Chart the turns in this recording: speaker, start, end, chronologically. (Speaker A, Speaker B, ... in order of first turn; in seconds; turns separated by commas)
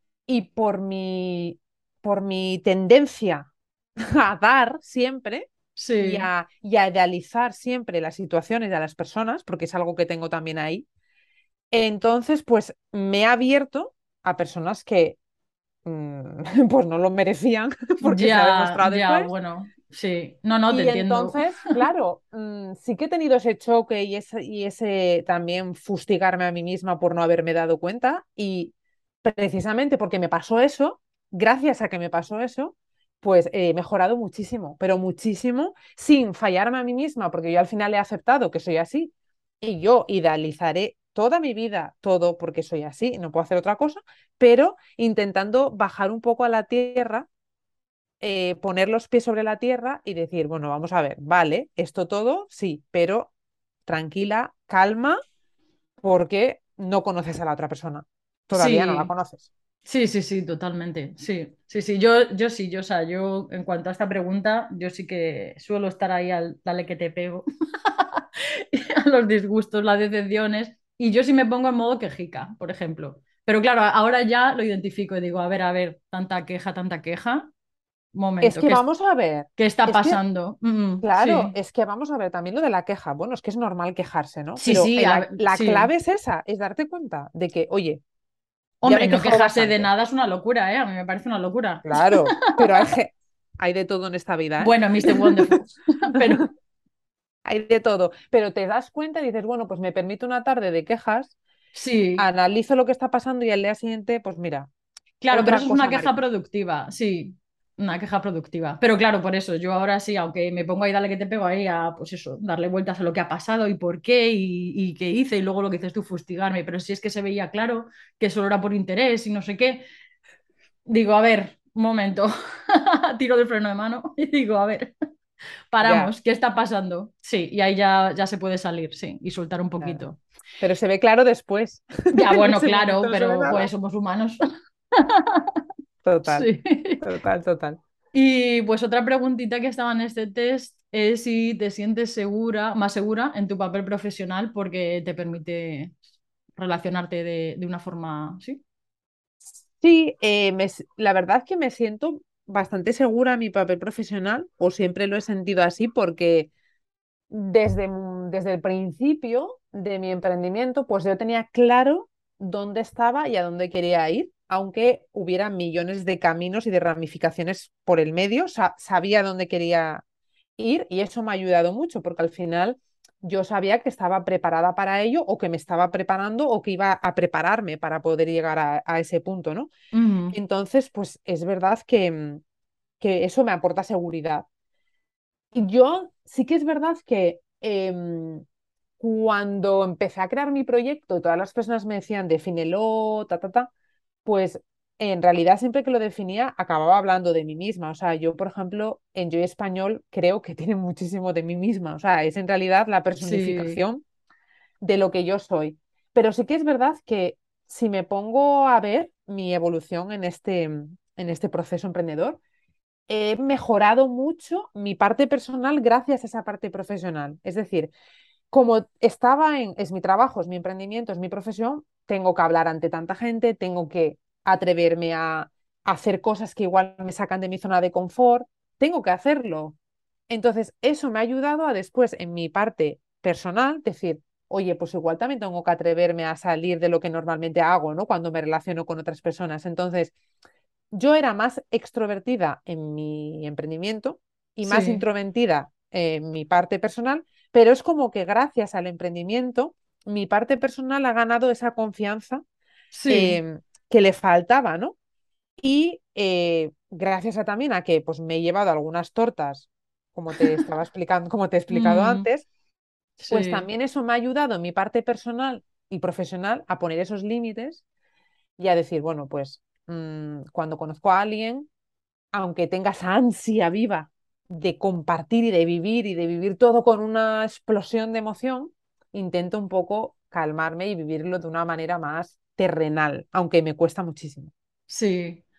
Speaker A: 0.3-10.9, Speaker B: 5.8-6.3, Speaker A: 11.7-15.2, Speaker A: 15.8-19.3, Speaker B: 18.0-21.9, Speaker A: 20.7-47.3, Speaker A: 48.2-53.3, Speaker A: 53.9-55.2, Speaker A: 56.0-59.5, Speaker B: 58.5-59.1, Speaker B: 59.9-77.5, Speaker B: 78.2-78.8, Speaker A: 78.4-80.2, Speaker B: 79.6-81.5, Speaker A: 81.0-88.0, Speaker B: 84.6-85.9, Speaker B: 88.8-92.9, Speaker A: 88.8-89.9, Speaker A: 91.8-96.4, Speaker B: 94.6-96.5, Speaker A: 97.5-101.3, Speaker B: 101.8-102.2, Speaker A: 102.2-104.7, Speaker B: 105.2-119.8, Speaker A: 105.3-106.1, Speaker B: 120.9-124.9, Speaker B: 125.7-130.2, Speaker A: 125.8-126.1, Speaker A: 129.8-130.1, Speaker A: 130.6-133.7, Speaker B: 132.1-134.4, Speaker B: 134.9-135.4, Speaker A: 136.1-136.5, Speaker B: 136.3-137.0, Speaker A: 137.0-137.8, Speaker B: 138.1-146.0, Speaker B: 146.6-148.6, Speaker A: 149.4-156.5, Speaker A: 157.3-170.0, Speaker A: 170.6-179.7, Speaker B: 179.9-180.4, Speaker A: 180.3-182.4, Speaker A: 183.0-184.5, Speaker A: 185.5-188.4, Speaker A: 189.0-193.7, Speaker A: 194.2-204.0, Speaker B: 203.2-203.8, Speaker A: 204.8-212.4, Speaker A: 213.1-217.9, Speaker A: 218.5-229.8, Speaker A: 230.3-240.1, Speaker A: 240.9-252.4, Speaker B: 244.6-245.0, Speaker B: 252.9-253.4, Speaker A: 253.1-255.0, Speaker A: 255.6-262.5, Speaker B: 261.7-262.3, Speaker B: 263.2-263.6, Speaker A: 263.3-267.8, Speaker A: 268.6-271.7, Speaker A: 272.3-284.5, Speaker B: 284.9-285.4